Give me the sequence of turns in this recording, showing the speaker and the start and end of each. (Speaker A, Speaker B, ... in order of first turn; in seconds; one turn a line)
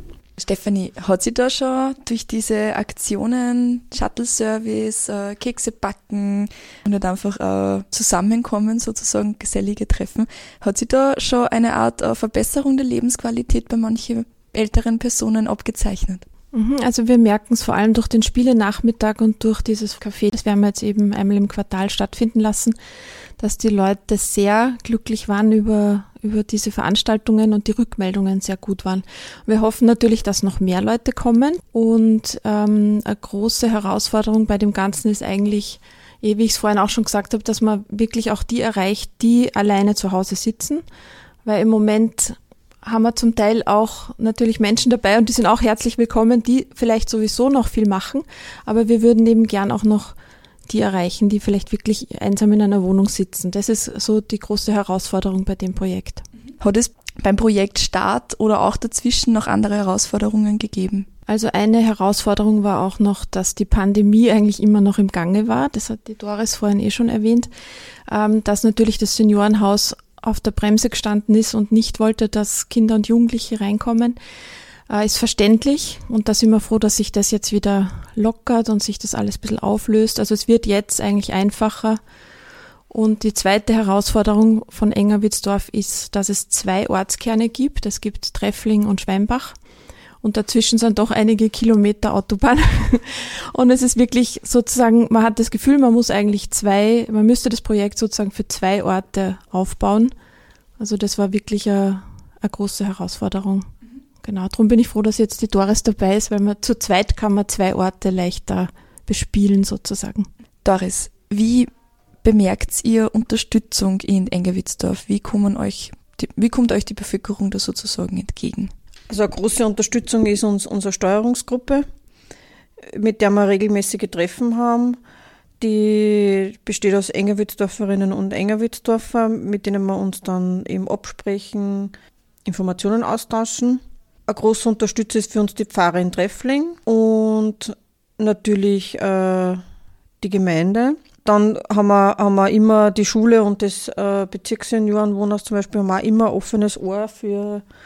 Speaker A: 0.4-16.2
Speaker B: 16.5-22.8
Speaker B: 23.4-40.8
Speaker B: 41.4-50.1
Speaker B: 50.7-56.2
Speaker A: 56.6-61.1
Speaker B: 61.3-67.5
Speaker B: 68.1-74.2
Speaker B: 74.9-82.0
Speaker B: 82.9-89.5
Speaker B: 90.2-100.1
Speaker B: 100.8-103.7
Speaker B: 104.2-110.3
Speaker A: 110.6-111.7
Speaker A: 112.2-118.7
Speaker C: 119.1-121.8
Speaker C: 122.9-125.0
Speaker C: 125.6-131.9
Speaker C: 132.4-139.6
Speaker C: 140.2-147.6